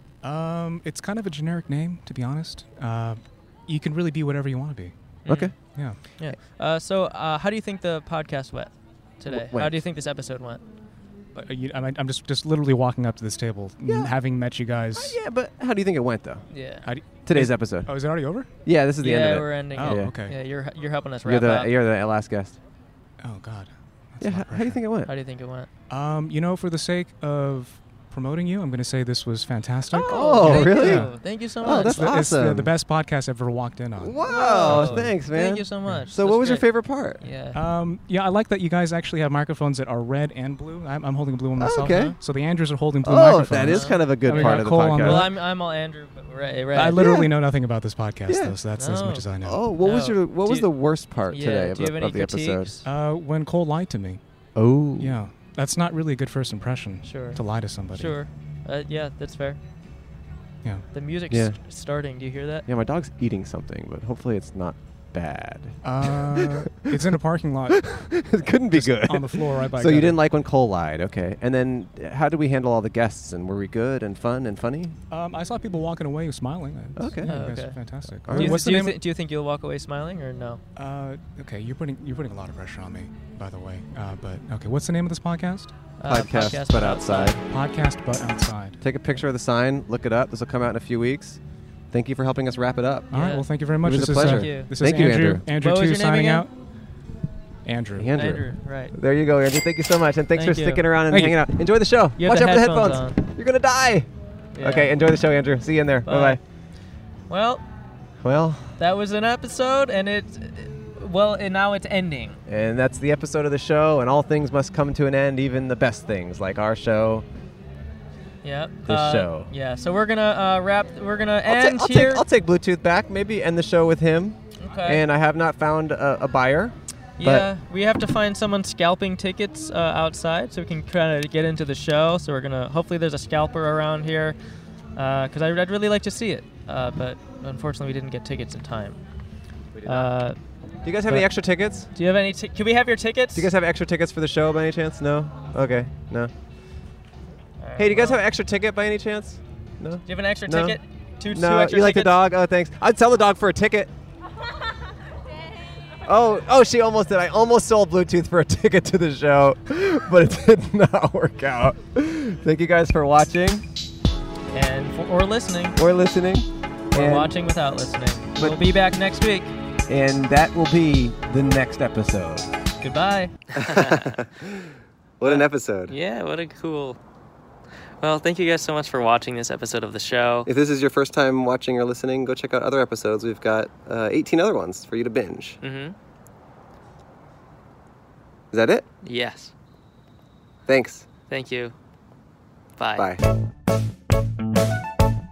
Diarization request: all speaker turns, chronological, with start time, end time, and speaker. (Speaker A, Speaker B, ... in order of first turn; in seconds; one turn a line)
Speaker A: 0.2-4.9
Speaker B: 5.2-5.6
Speaker C: 5.3-10.6
Speaker A: 5.5-6.0
Speaker B: 9.3-9.8
Speaker A: 11.3-15.2
Speaker B: 14.9-16.4
Speaker C: 16.5-16.9
Speaker A: 16.8-18.5
Speaker B: 17.2-18.0
Speaker B: 18.6-20.1
Speaker C: 19.0-21.7
Speaker A: 19.8-20.4
Speaker B: 21.2-22.6
Speaker A: 23.2-24.8
Speaker B: 24.2-25.1
Speaker C: 25.1-25.7
Speaker A: 25.9-35.1
Speaker C: 29.9-32.1
Speaker B: 30.0-32.7
Speaker B: 34.0-37.2
Speaker C: 34.2-37.6
Speaker A: 37.5-45.3
Speaker B: 41.6-42.2
Speaker C: 41.8-42.2
Speaker B: 43.0-45.3
Speaker C: 43.6-47.0
Speaker A: 46.7-49.7
Speaker B: 47.0-47.3
Speaker B: 48.3-48.6
Speaker C: 48.8-52.9
Speaker B: 49.4-52.7
Speaker A: 52.8-54.2
Speaker B: 54.5-55.2
Speaker A: 55.0-58.2
Speaker C: 57.0-57.4
Speaker C: 57.9-59.6
Speaker C: 60.9-62.6
Speaker B: 61.3-61.6
Speaker B: 62.7-66.9
Speaker A: 65.8-67.8
Speaker B: 67.7-75.0
Speaker A: 68.6-70.2
Speaker A: 75.1-79.0
Speaker B: 77.0-77.3
Speaker C: 77.3-80.6
Speaker B: 78.2-78.7
Speaker A: 80.8-85.7
Speaker C: 86.0-87.4
Speaker B: 86.0-87.4
Speaker A: 87.4-88.8
Speaker B: 88.8-93.1
Speaker A: 93.1-96.5
Speaker C: 93.1-93.5
Speaker B: 93.8-95.5
Speaker C: 94.2-94.7
Speaker C: 95.6-96.5
Speaker A: 97.7-98.4
Speaker B: 98.0-104.1
Speaker C: 98.0-98.9
Speaker C: 100.3-100.9
Speaker A: 101.1-101.5
Speaker C: 102.2-103.2
Speaker C: 104.5-105.0
Speaker B: 104.6-106.4
Speaker C: 106.0-106.4
Speaker C: 107.3-107.6
Speaker B: 108.2-108.7
Speaker C: 108.8-112.4
Speaker B: 112.5-117.2
Speaker C: 118.4-122.2
Speaker B: 118.9-119.5
Speaker B: 121.5-127.5
Speaker C: 124.6-125.0
Speaker C: 127.2-134.4
Speaker C: 134.9-139.0
Speaker B: 139.8-140.1
Speaker C: 139.8-140.4
Speaker B: 140.8-141.9
Speaker C: 141.9-143.5
Speaker B: 143.3-146.3
Speaker C: 147.6-148.2
Speaker B: 147.8-153.9
Speaker C: 150.1-152.2
Speaker B: 156.0-163.7
Speaker C: 164.5-165.8
Speaker B: 165.8-167.3
Speaker C: 166.9-169.6
Speaker B: 168.4-168.6
Speaker B: 169.9-172.5
Speaker C: 172.8-174.1
Speaker B: 173.5-175.9
Speaker C: 175.2-177.0
Speaker C: 178.0-180.5
Speaker B: 180.5-185.6
Speaker C: 185.6-185.9
Speaker B: 188.5-188.8
Speaker C: 189.0-189.5
Speaker B: 190.7-191.1
Speaker C: 191.3-191.8
Speaker C: 192.8-193.1
Speaker B: 193.0-193.2